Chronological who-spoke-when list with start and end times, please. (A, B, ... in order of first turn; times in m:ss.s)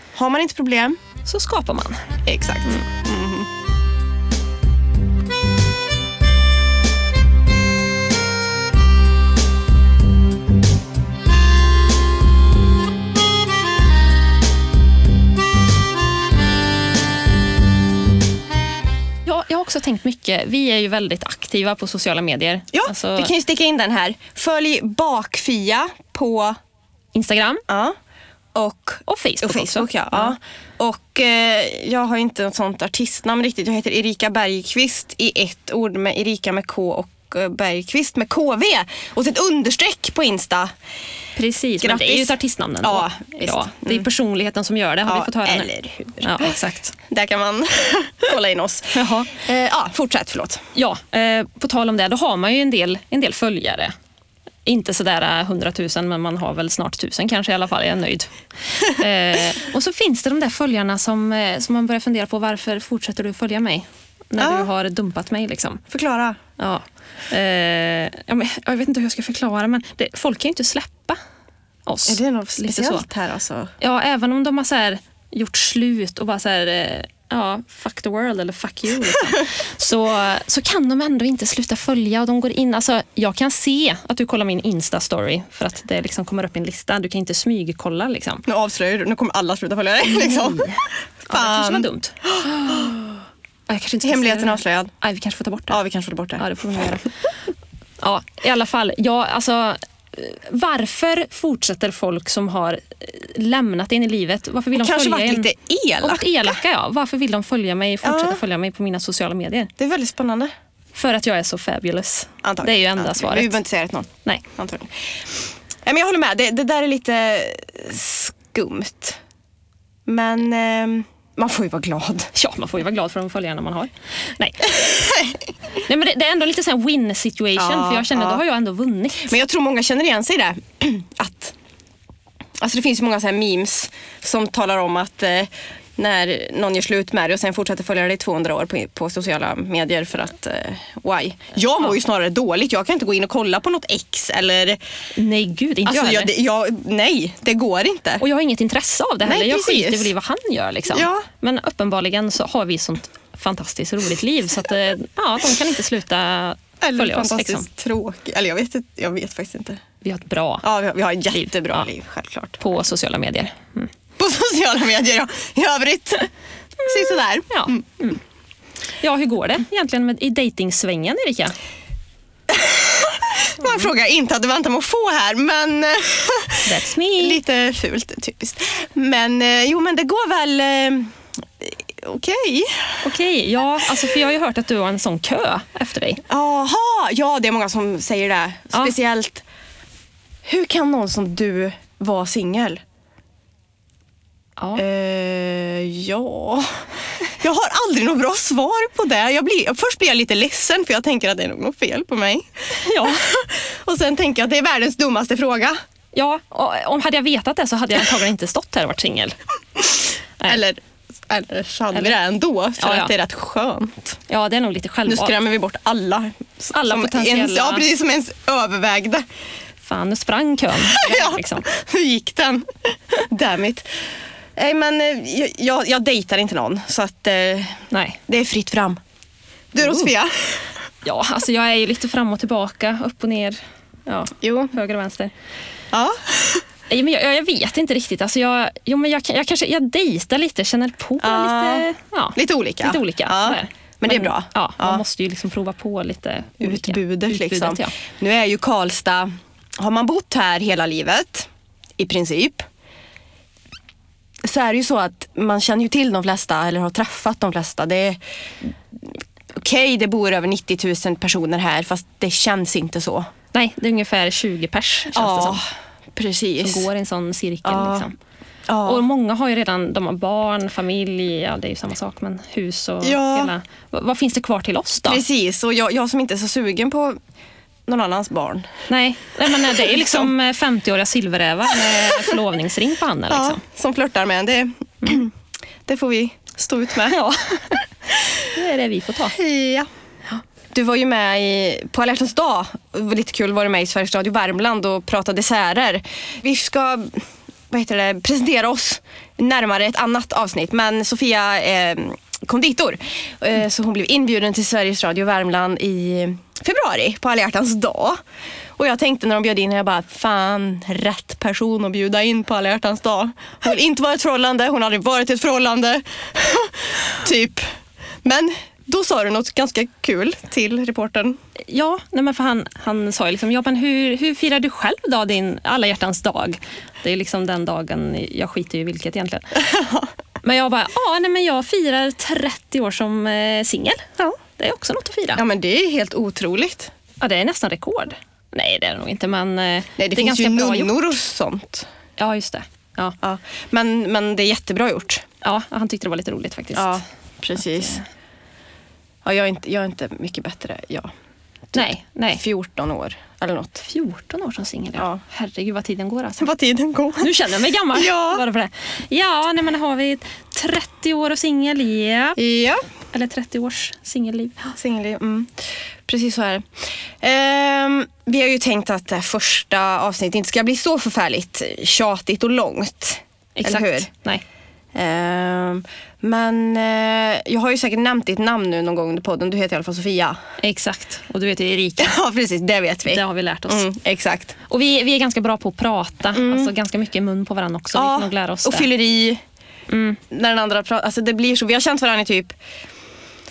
0:00.2-0:01.0 A
0:01.2-0:02.1 B
0:02.3-0:03.5 A
0:19.2-0:23.3 B
0:22.7-0:26.6 A
0:27.1-0:27.6 B
0:27.7-0:28.0 A
0:28.6-0:40.7 A
0:29.1-0:30.4 B
0:41.4-0:45.7 B
0:41.8-0:44.1 A
0:45.1-0:50.6 A
0:46.2-0:46.9 B
0:49.0-0:49.3 B
0:50.8-0:53.9 B
0:54.7-1:05.8 B
1:04.4-1:04.7 A
1:05.9-1:06.4 A
1:06.6-1:11.2 B
1:11.9-1:13.0 B
1:12.1-1:13.7 A
1:13.8-1:28.4 B
1:28.5-1:33.1 A
1:30.0-1:33.0 B
1:33.7-1:35.8 B
1:34.0-1:34.9 A
1:35.7-1:36.5 A
1:36.4-1:37.1 B
1:38.0-1:49.7 B
1:44.8-1:46.6 A
1:48.0-1:48.4 A
1:49.8-1:50.5 A
1:51.0-1:53.6 B
1:52.4-1:55.1 A
1:55.9-1:59.2 A
2:00.1-2:02.3 A
2:02.3-2:05.1 B
2:05.9-2:09.4 B
2:07.6-2:08.4 A
2:09.2-2:11.6 A
2:12.6-2:24.8 A
2:25.2-2:26.3 B
2:25.9-2:28.2 A
2:28.2-2:37.7 B
2:29.2-2:30.1 A
2:30.9-2:31.3 A
2:36.8-2:39.8 A
2:40.0-2:40.6 B
2:40.6-2:42.6 A
2:41.3-2:41.9 B
2:42.6-2:43.9 B
2:44.2-2:47.8 A
2:47.5-2:48.2 B
2:49.0-2:51.6 B
2:52.5-3:03.0 A
2:53.6-2:53.9 B
2:56.6-2:57.4 B
3:03.0-3:06.2 B
3:06.3-3:09.4 A
3:10.5-3:12.8 A
3:14.6-3:14.8 B
3:14.8-3:16.8 A
3:17.4-3:25.8 A
3:22.8-3:23.2 B
3:26.1-3:29.4 B
3:29.8-3:34.2 A
3:32.8-3:33.1 B
3:34.3-3:35.4 B
3:35.1-3:39.2 A
3:36.7-3:37.9 B
3:39.8-3:41.7 B
3:40.9-3:43.9 A
3:44.6-3:49.0 A
3:47.9-3:48.2 B
3:49.7-3:50.6 A
3:49.8-3:50.1 B
3:51.0-3:55.3 B
3:54.4-3:54.8 A
3:55.9-3:56.6 A
3:56.9-4:07.9 B
4:01.2-4:05.0 A
4:06.6-4:12.7 A
4:14.4-4:18.2 A
4:19.6-4:23.3 A
4:23.5-4:25.6 B
4:25.2-4:25.6 A
4:26.2-4:26.9 A
4:26.6-4:28.2 B
4:27.6-4:28.1 A
4:28.7-4:29.0 A
4:28.8-4:35.2 B
4:33.0-4:33.5 A
4:35.1-4:37.2 A
4:37.9-4:38.7 A
4:38.9-4:43.6 B
4:39.7-4:40.3 A
4:43.3-4:45.3 A
4:45.9-4:47.2 A
4:47.1-4:47.8 B
4:48.5-4:49.4 B
4:49.3-4:49.9 A
4:50.7-5:08.2 A
5:08.8-5:17.6 A
5:18.2-5:21.4 A
5:21.7-5:29.6 B
5:29.7-5:30.1 A
5:30.4-5:34.0 B
5:34.6-5:35.4 B
5:35.4-5:36.9 A
5:37.2-5:40.9 B
5:40.0-5:41.9 A
5:42.2-5:43.2 B
5:43.2-5:45.2 A
5:45.4-5:47.0 B
5:46.7-5:48.0 A
5:47.7-5:48.0 B
5:49.2-5:51.1 A
5:51.7-5:53.9 A
5:51.7-5:52.4 B
5:53.8-5:56.5 B
5:55.0-5:55.2 A
5:56.4-5:57.3 A
5:57.2-6:02.4 B
5:57.9-5:58.4 A
6:02.4-6:02.9 A
6:03.1-6:04.7 B
6:04.7-6:05.5 A
6:06.1-6:06.7 A
6:07.2-6:14.1 A
6:13.6-6:14.4 B
6:15.0-6:20.4 A
6:20.6-6:22.2 B
6:22.0-6:24.6 A
6:23.1-6:23.9 B
6:24.7-6:28.9 B
6:26.3-6:26.7 A
6:28.0-6:29.4 A
6:29.9-6:30.2 B
6:30.3-6:32.6 A